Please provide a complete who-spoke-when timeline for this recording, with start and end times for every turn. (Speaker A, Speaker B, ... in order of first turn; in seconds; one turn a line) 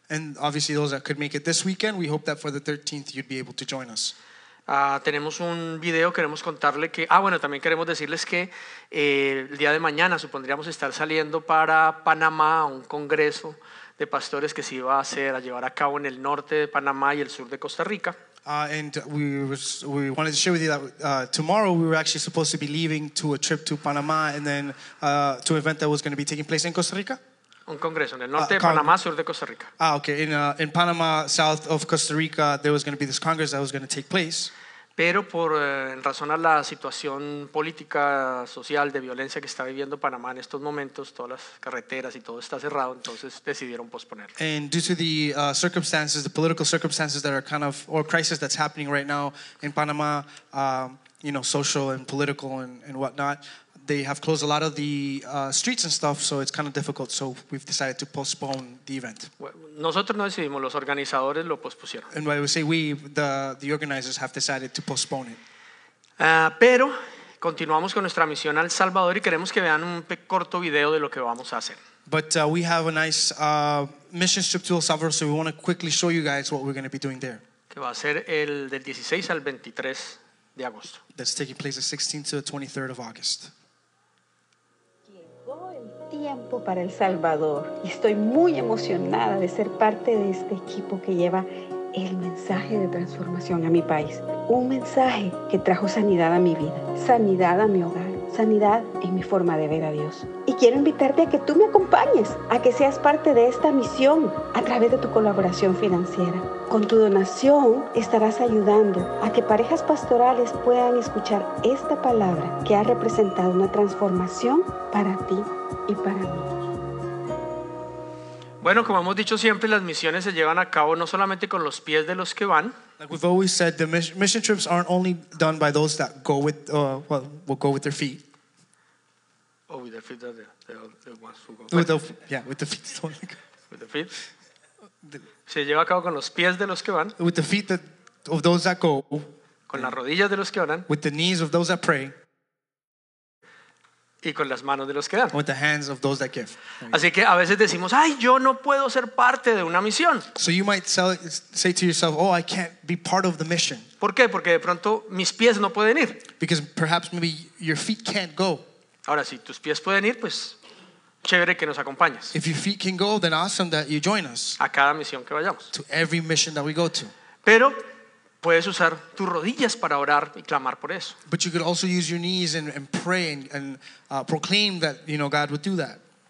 Speaker A: 0.1-4.1
Speaker B: 4.7-18.1
Speaker A: 18.4-27.2
Speaker B: 27.7-29.7
Speaker A: 28.4-28.9
Speaker A: 29.8-34.5
Speaker B: 35.0-44.3
Speaker A: 44.4-59.3
Speaker B: 59.4-62.1
Speaker A: 62.1-65.4
Speaker B: 66.2-71.8
Speaker A: 72.1-77.4
Speaker B: 77.7-81.0
Speaker A: 81.1-83.5
Speaker C: 85.1-116.7
Speaker B: 118.6-122.8
Speaker A: 123.0-128.2
Speaker B: 129.7-131.9
Speaker A: 131.7-133.4
Speaker B: 133.7-134.1
Speaker B: 135.5-137.2
Speaker A: 137.2-139.9
Speaker B: 139.7-140.9
Speaker A: 140.9-142.1
Speaker B: 144.2-145.4
Speaker A: 145.3-147.0
Speaker B: 146.9-150.3
Speaker A: 150.3-153.9
Speaker B: 154.0-156.2
Speaker A: 156.4-158.6
Speaker B: 159.1-160.6
Speaker B: 161.2-162.3
Speaker A: 162.3-164.6
Speaker B: 164.6-165.7
Speaker A: 165.7-167.1
Speaker B: 167.4-167.8
Speaker B: 168.4-171.2
Speaker A: 171.3-176.0